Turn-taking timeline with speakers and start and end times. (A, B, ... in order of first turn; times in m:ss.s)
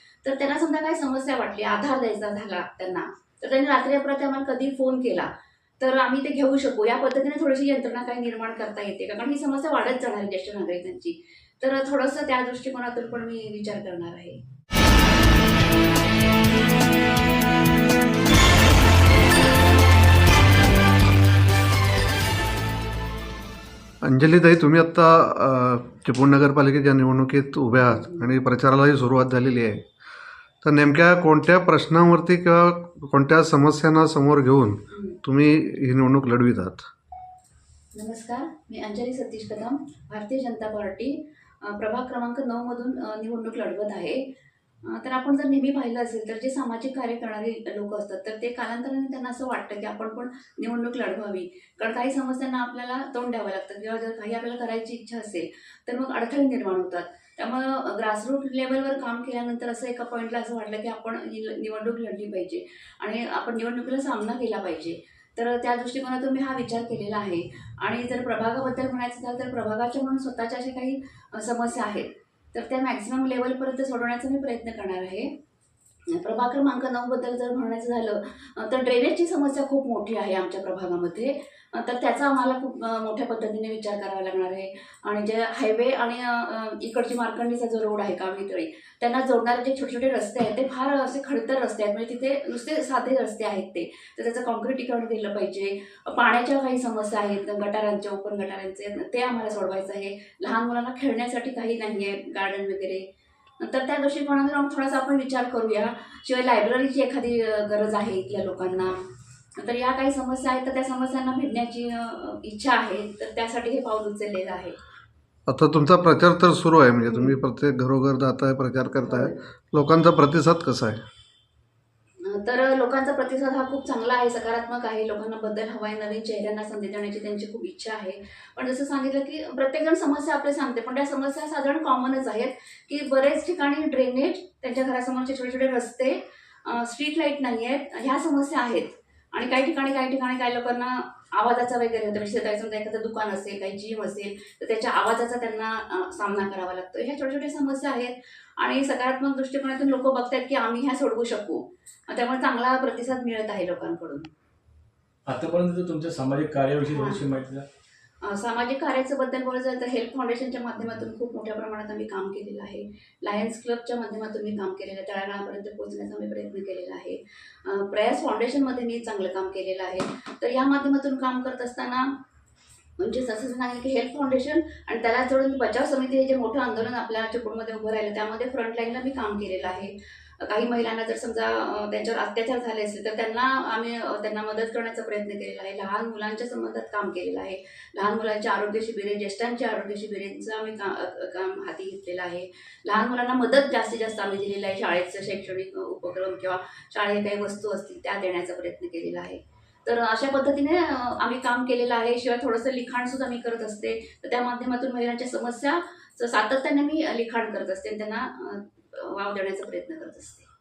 0:00.2-0:14.4 A
0:24.0-0:29.9 B
0:27.8-0:28.3 A
0:30.6-0:36.9 B
0:34.9-0:35.2 A
0:37.9-0:44.3 A
0:44.8-1:15.3 A
1:16.1-1:43.1 A
1:43.6-1:49.0 A
1:49.6-1:54.8 A
1:55.5-2:01.0 B
1:57.1-1:57.4 A
1:59.0-1:59.4 A
2:02.2-2:34.3 A
2:35.3-2:37.6 C
2:36.9-2:37.2 A
2:38.2-2:52.2 A
2:53.0-3:30.5 A